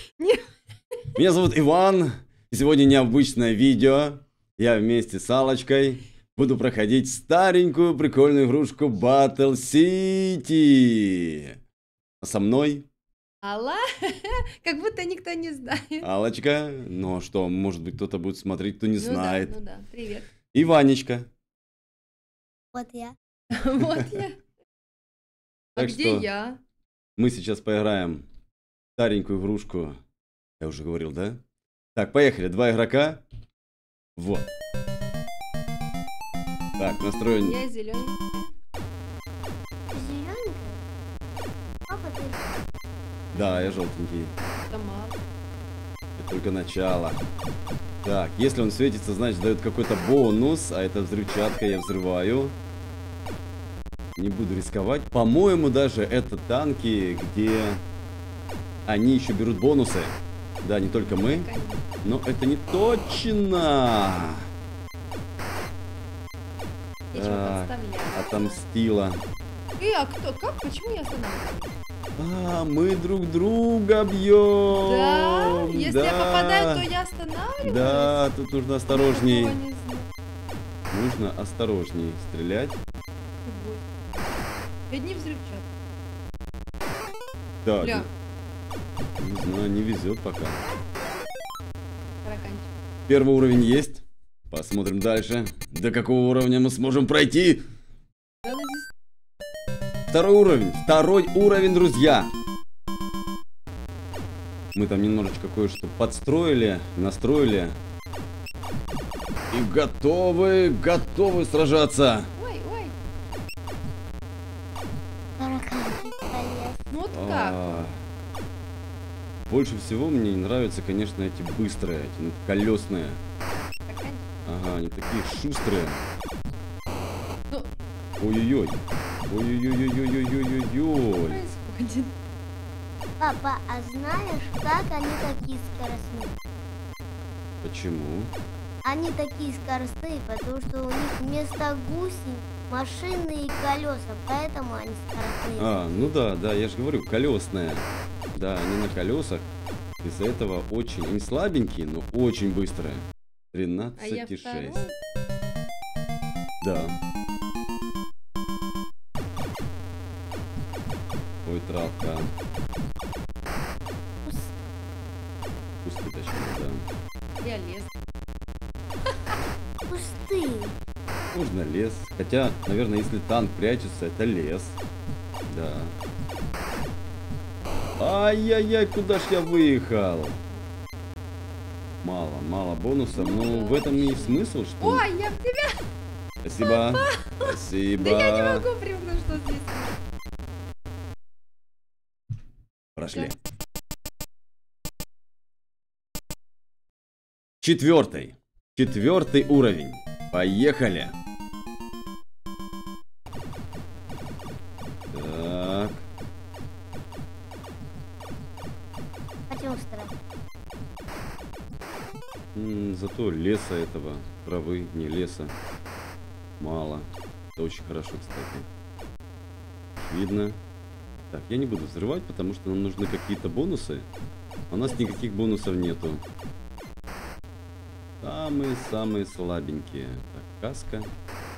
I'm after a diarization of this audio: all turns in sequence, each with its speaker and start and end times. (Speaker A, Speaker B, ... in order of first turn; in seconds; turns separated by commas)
Speaker A: 0.2-0.5, Speaker B: 1.1-11.6, Speaker B: 12.2-12.9, Speaker A: 13.4-16.1, Speaker B: 16.0-19.5, Speaker A: 19.0-20.3, Speaker B: 20.5-21.3, Speaker C: 22.7-23.2, Speaker A: 23.5-24.4, Speaker A: 25.8-26.6, Speaker B: 25.8-26.3, Speaker B: 27.2-28.2, Speaker B: 29.0-30.0, Speaker B: 30.6-31.4, Speaker B: 31.9-33.2, Speaker B: 34.2-34.5, Speaker B: 36.8-37.6, Speaker A: 37.4-38.5, Speaker C: 39.9-40.8, Speaker C: 41.9-42.5, Speaker B: 43.3-44.3, Speaker A: 43.4-43.7, Speaker A: 44.7-45.2, Speaker B: 46.2-47.2, Speaker B: 48.0-52.6, Speaker B: 54.2-57.8, Speaker B: 58.9-61.5, Speaker A: 60.9-61.8, Speaker B: 62.0-64.5, Speaker A: 67.1-68.6, Speaker B: 67.1-69.2, Speaker A: 69.8-71.7, Speaker B: 72.2-76.9, Speaker A: 74.7-78.2, Speaker B: 77.6-79.6, Speaker A: 78.9-80.1, Speaker B: 80.9-82.8, Speaker A: 83.5-83.8, Speaker A: 84.9-85.7, Speaker B: 87.7-88.1, Speaker A: 87.8-88.1, Speaker B: 89.2-90.6, Speaker A: 92.2-92.7, Speaker B: 93.1-97.6, Speaker A: 98.4-98.9, Speaker B: 100.1-102.3, Speaker B: 104.8-107.8, Speaker B: 109.5-112.3, Speaker A: 112.3-113.0, Speaker C: 115.4-116.8, Speaker A: 116.9-117.8, Speaker B: 117.1-118.0, Speaker B: 119.5-123.2, Speaker A: 123.9-124.2, Speaker B: 124.5-126.0, Speaker B: 128.2-131.4, Speaker A: 131.2-132.1, Speaker C: 133.2-136.3, Speaker B: 137.6-138.3, Speaker C: 138.8-146.2, Speaker B: 145.6-149.5, Speaker B: 150.0-154.8, Speaker A: 154.0-154.9, Speaker B: 156.6-157.0, Speaker B: 161.4-162.3, Speaker B: 165.8-166.9, Speaker A: 167.4-167.9, Speaker C: 169.9-170.8, Speaker B: 171.3-174.8, Speaker B: 175.5-175.9, Speaker B: 178.0-180.4, Speaker B: 182.0-185.0, Speaker A: 183.1-185.8, Speaker B: 186.4-188.7, Speaker A: 186.6-190.0, Speaker B: 193.0-193.3, Speaker A: 193.1-193.4, Speaker B: 197.6-201.2, Speaker B: 205.1-206.1, Speaker C: 209.5-210.1, Speaker B: 212.6-215.5, Speaker B: 216.6-218.7, Speaker B: 220.0-220.6, Speaker B: 221.3-224.1, Speaker B: 224.7-226.2, Speaker A: 224.8-225.5, Speaker B: 228.2-231.1